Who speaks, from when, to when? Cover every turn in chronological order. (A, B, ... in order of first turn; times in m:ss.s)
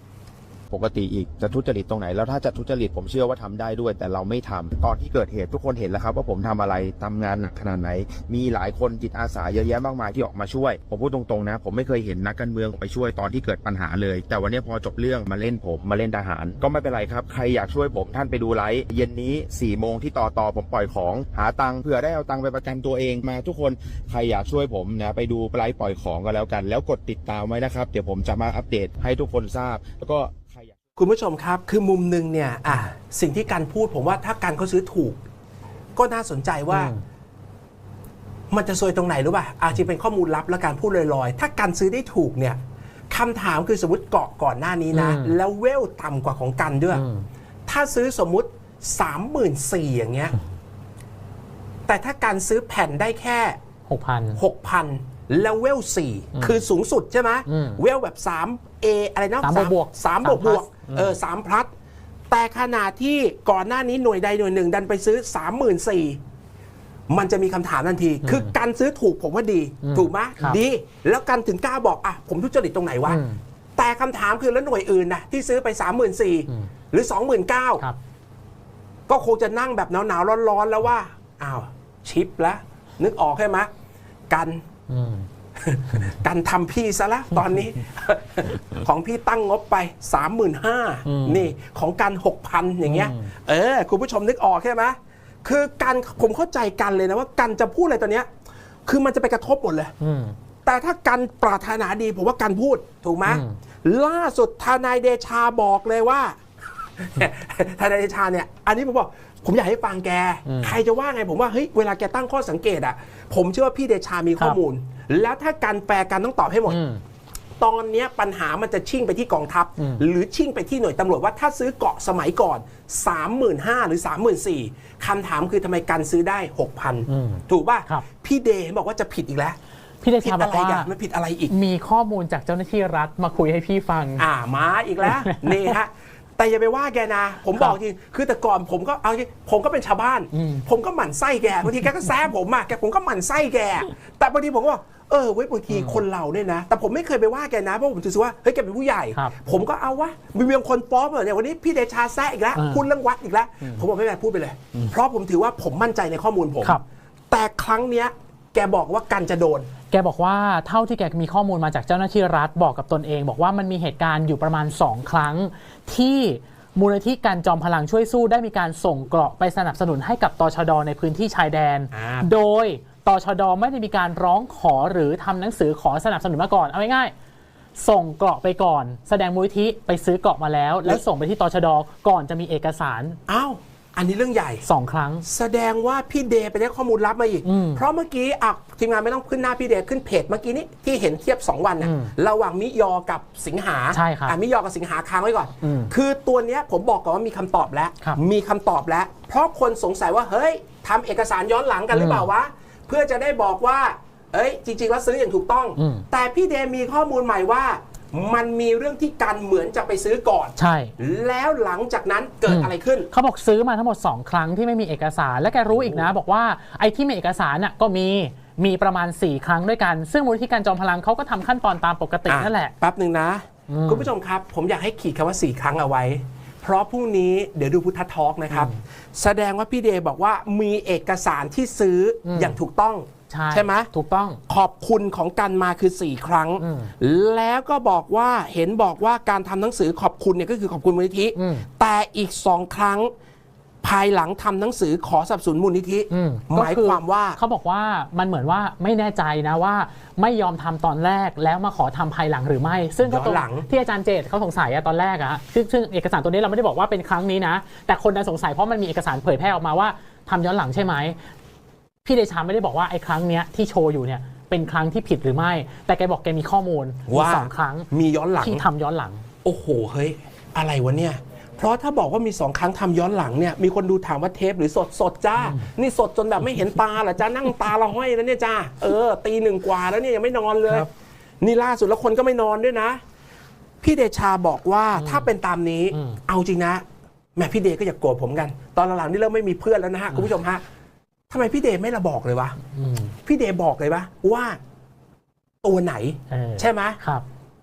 0:00.7-0:30.7 A
0:31.0-0:35.2 B
0:36.0-0:36.9 B
0:36.7-0:37.0 C
0:38.5-0:47.0 B
0:44.9-0:45.3 C
0:46.9-0:47.2 C
0:47.7-0:50.4 B
0:51.9-0:53.6 B
0:53.9-0:54.4 C
0:54.4-1:01.7 B
0:57.5-0:57.8 C
0:59.4-1:01.2 C
1:02.3-1:06.2 B
1:07.1-1:13.2 B
1:08.2-1:08.5 C
1:09.8-1:10.6 C
1:13.0-1:13.4 C
1:13.8-1:17.8 B
1:19.1-1:23.7 B
1:24.3-1:24.6 B
1:24.9-1:25.3 C
1:25.6-1:38.3 B
1:31.0-1:31.5 C
1:32.8-1:33.3 C
1:38.8-1:39.9 B
1:40.0-1:40.3 C
1:40.7-1:46.4 B
1:43.3-1:43.5 C
1:47.0-1:56.8 B
1:50.5-1:50.8 C
1:56.7-1:57.0 C
1:57.6-2:09.6 B
1:59.8-2:00.0 C
2:07.1-2:08.0 C
2:10.0-2:10.9 C
2:10.2-2:11.5 B
2:11.5-2:14.2 C
2:14.2-2:36.8 B
2:15.2-2:15.7 C
2:20.3-2:20.6 C
2:25.7-2:26.0 C
2:32.5-2:32.8 C
2:37.3-2:39.7 B
2:39.9-2:57.1 C
2:51.9-2:52.3 B
2:57.8-3:03.2 C
3:03.3-3:04.6 B
3:04.6-3:05.2 C
3:05.2-3:33.1 B
3:07.4-3:07.8 C
3:11.8-3:12.1 C
3:13.9-3:14.4 C
3:15.6-3:15.9 C
3:21.9-3:22.3 C
3:25.8-3:26.0 C
3:30.6-3:30.9 C
3:32.5-3:42.7 C
3:35.7-3:36.0 B
3:42.3-3:53.9 B
3:43.7-3:44.1 C
3:48.5-3:48.8 C
3:52.2-3:52.6 C
3:53.3-3:54.4 C
3:54.5-4:03.1 B
3:56.6-3:56.9 C
4:01.4-4:01.7 C
4:03.8-4:07.4 B
4:06.1-4:21.2 C
4:13.0-4:13.7 B
4:22.0-4:27.9 C
4:27.1-4:28.6 B
4:28.4-4:29.2 C
4:29.4-4:40.9 B
4:41.4-4:43.0 B
4:43.8-4:46.8 B
4:45.0-4:45.3 C
4:47.4-4:50.6 B
4:51.3-4:52.6 B
4:52.7-4:53.1 C
4:53.2-4:54.6 B
4:55.6-4:57.0 B
4:56.3-4:57.2 C